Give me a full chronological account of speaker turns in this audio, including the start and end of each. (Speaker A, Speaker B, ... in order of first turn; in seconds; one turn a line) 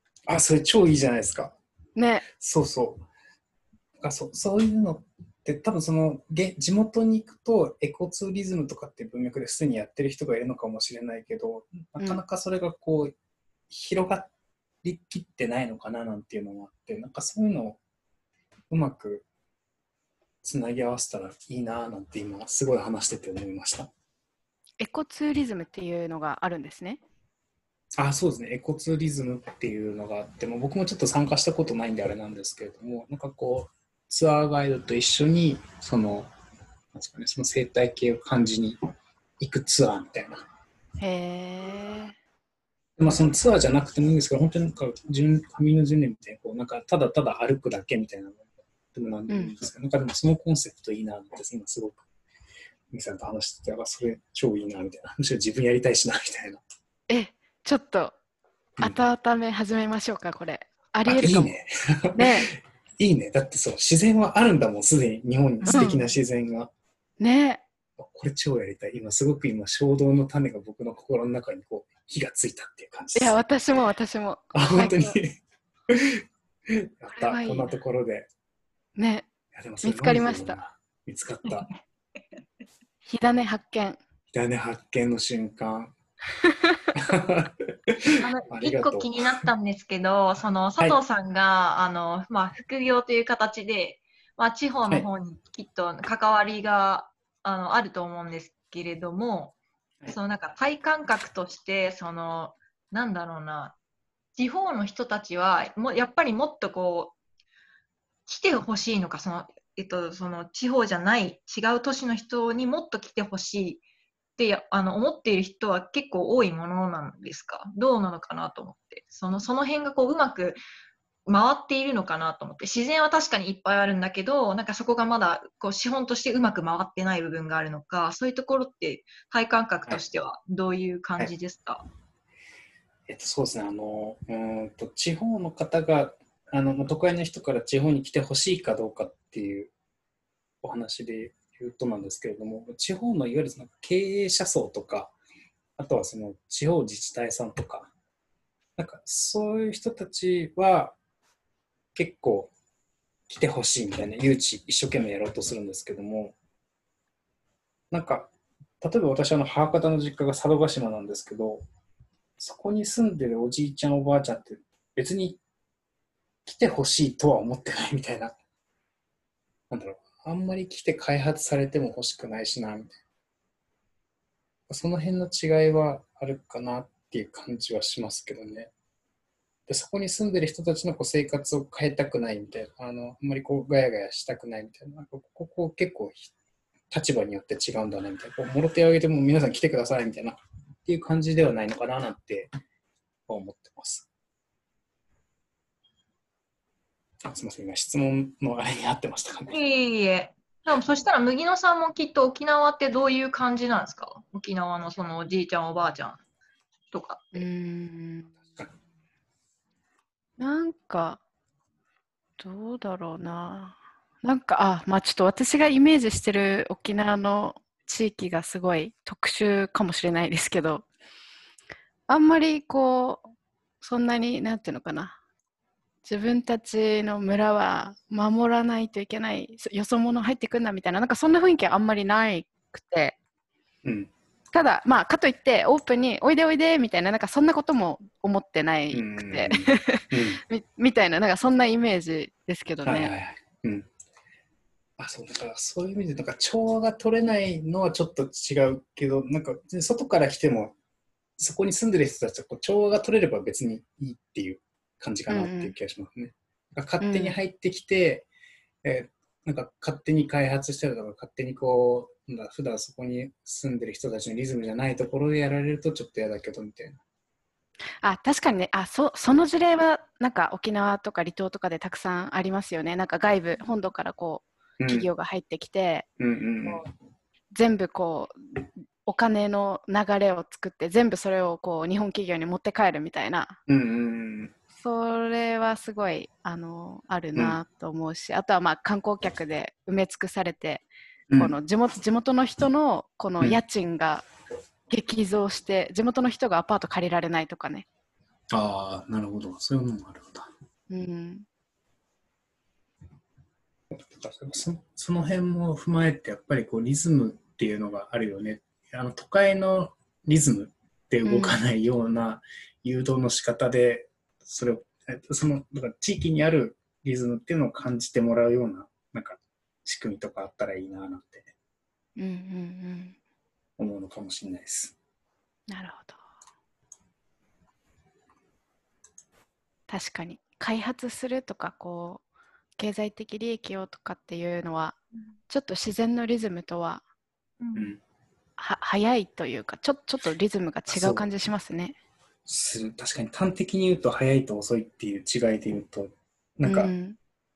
Speaker A: 0.3-1.6
Speaker B: 1.9-2.2
Speaker A: 2.3-3.0
Speaker A: 4.0-13.1
Speaker A: 13.7-14.3
Speaker A: 14.8-17.8
Speaker A: 18.7-19.2
Speaker A: 20.4-23.9
Speaker B: 24.8-27.0
Speaker A: 27.9-36.3
Speaker A: 36.9-38.8
Speaker A: 39.4-40.4
Speaker B: 41.0-42.1
Speaker A: 43.0-52.0
Speaker B: 49.3-49.5
Speaker A: 52.9-56.6
Speaker B: 57.1-58.1
Speaker A: 58.8-59.0
Speaker B: 58.8-61.5
Speaker A: 61.0-66.7
Speaker B: 62.1-62.5
Speaker B: 65.6-66.0
Speaker B: 67.2-67.6
Speaker A: 68.0-73.4
Speaker B: 73.2-75.2
Speaker A: 74.5-75.4
Speaker A: 75.9-78.3
Speaker B: 77.1-77.8
Speaker B: 79.0-79.3
Speaker A: 79.5-81.7
Speaker B: 79.8-80.6
Speaker B: 83.1-84.0
Speaker A: 84.3-85.9
Speaker A: 86.9-89.5
Speaker C: 88.2-103.8
Speaker C: 104.4-107.2
Speaker C: 108.3-113.8
Speaker C: 114.4-120.6
Speaker C: 121.2-131.8
Speaker A: 133.1-139.7
Speaker A: 140.6-145.1
Speaker A: 145.8-147.9
Speaker A: 148.8-151.0
Speaker A: 151.9-152.5
Speaker A: 153.3-156.3
Speaker A: 157.9-161.7
Speaker A: 162.4-165.4
Speaker A: 166.4-168.3
Speaker A: 169.7-173.0
Speaker A: 174.7-178.7
Speaker A: 179.7-186.3
Speaker A: 186.9-192.5
Speaker A: 193.3-194.1
Speaker A: 197.2-199.6
Speaker C: 199.5-206.2
Speaker C: 206.9-207.4
Speaker B: 207.3-208.3
Speaker B: 210.4-211.2
Speaker B: 212.4-220.9
Speaker B: 222.1-223.3
Speaker B: 223.8-225.2
Speaker B: 226.0-233.2
Speaker A: 233.8-234.1
Speaker B: 234.5-243.1
Speaker A: 238.9-240.4
Speaker A: 242.8-243.9
Speaker A: 245.0-250.7
Speaker A: 251.4-258.3
Speaker B: 255.3-255.7
Speaker B: 257.0-257.4
Speaker A: 258.8-267.0
Speaker B: 268.0-276.1
Speaker A: 274.8-275.1
Speaker A: 276.2-276.8
Speaker B: 277.5-283.6
Speaker A: 283.7-284.5
Speaker B: 284.8-290.9
Speaker A: 291.3-291.5
Speaker B: 291.4-294.2
Speaker B: 294.9-297.9
Speaker A: 298.5-300.5
Speaker B: 300.9-301.4
Speaker A: 303.9-321.5
Speaker B: 311.2-311.6
Speaker B: 322.2-323.2
Speaker A: 323.8-324.9
Speaker B: 325.7-326.2
Speaker B: 329.9-332.2
Speaker B: 332.8-337.0
Speaker C: 337.6-337.9
Speaker A: 337.7-338.0
Speaker B: 338.6-341.9
Speaker A: 340.9-341.2
Speaker A: 342.4-346.9
Speaker B: 346.6-347.2